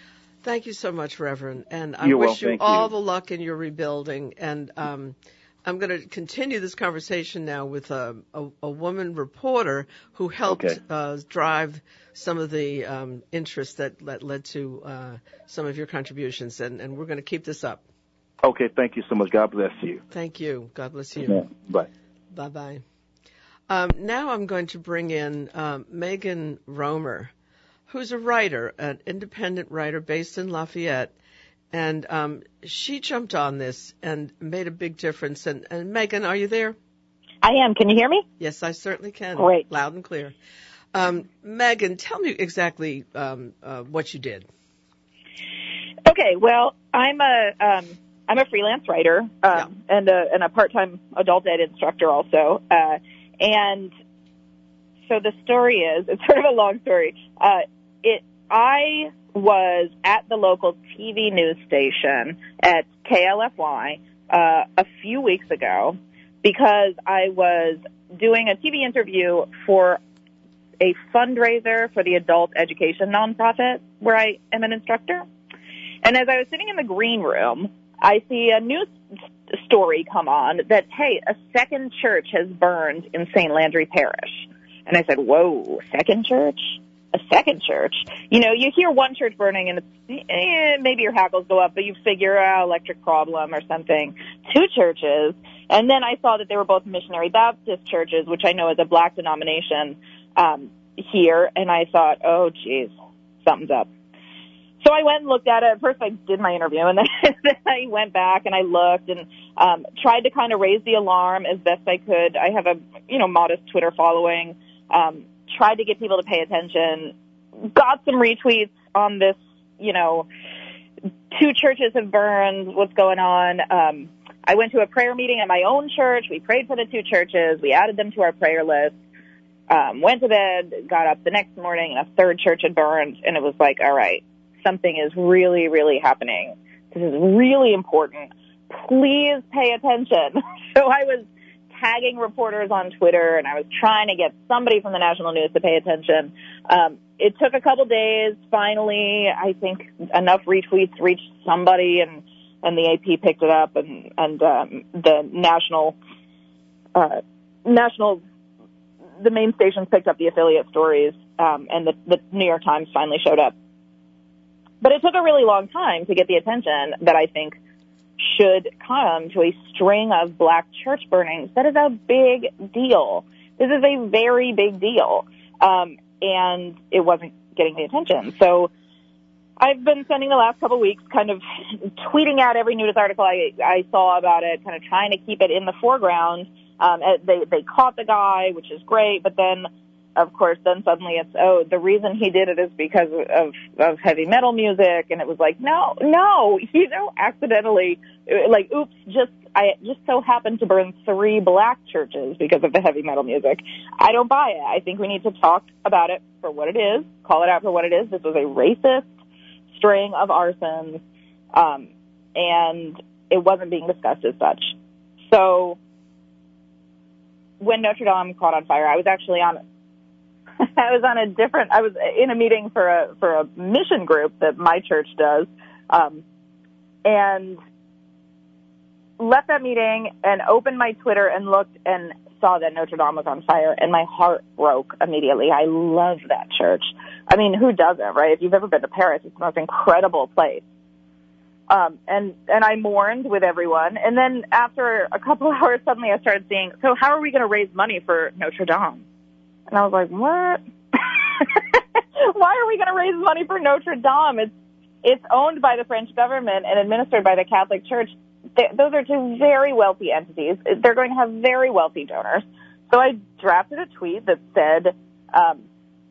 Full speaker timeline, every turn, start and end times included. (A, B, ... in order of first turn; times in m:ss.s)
0:00.4-0:17.8 A
0:02.0-0:02.9 B
0:10.5-0:10.8 B
0:18.4-0:20.0 B
0:20.1-0:21.5 A
0:21.2-0:21.9 B
0:22.3-0:22.8 A
0:23.7-0:27.3 A
0:27.9-0:31.1 A
0:31.7-0:36.8 A
0:37.4-0:38.2 C
0:38.4-0:40.3 A
0:39.4-0:39.6 C
0:40.9-0:44.5 A
0:46.0-0:53.9 C
0:55.1-1:10.0 C
1:10.8-1:15.2 C
1:16.0-1:18.9 C
1:19.5-1:42.9 C
1:43.4-1:43.9 C
1:44.8-1:57.1 C
1:57.7-2:00.3 C
2:01.3-2:08.9 C
2:09.7-2:21.2 C
2:21.8-2:36.0 C
2:36.9-2:38.2 C
2:39.2-2:43.5 C
2:44.8-2:47.6 C
2:48.2-2:58.7 C
2:59.6-3:29.1 C
3:29.7-3:31.0 C
3:31.5-3:34.7 C
3:35.3-3:35.8 C
3:37.6-3:39.6 C
3:40.6-3:46.2 C
3:47.0-3:47.6 C
3:49.2-4:00.6 C
4:01.7-4:09.0 C
4:09.7-4:14.5 C
4:15.0-4:25.6 C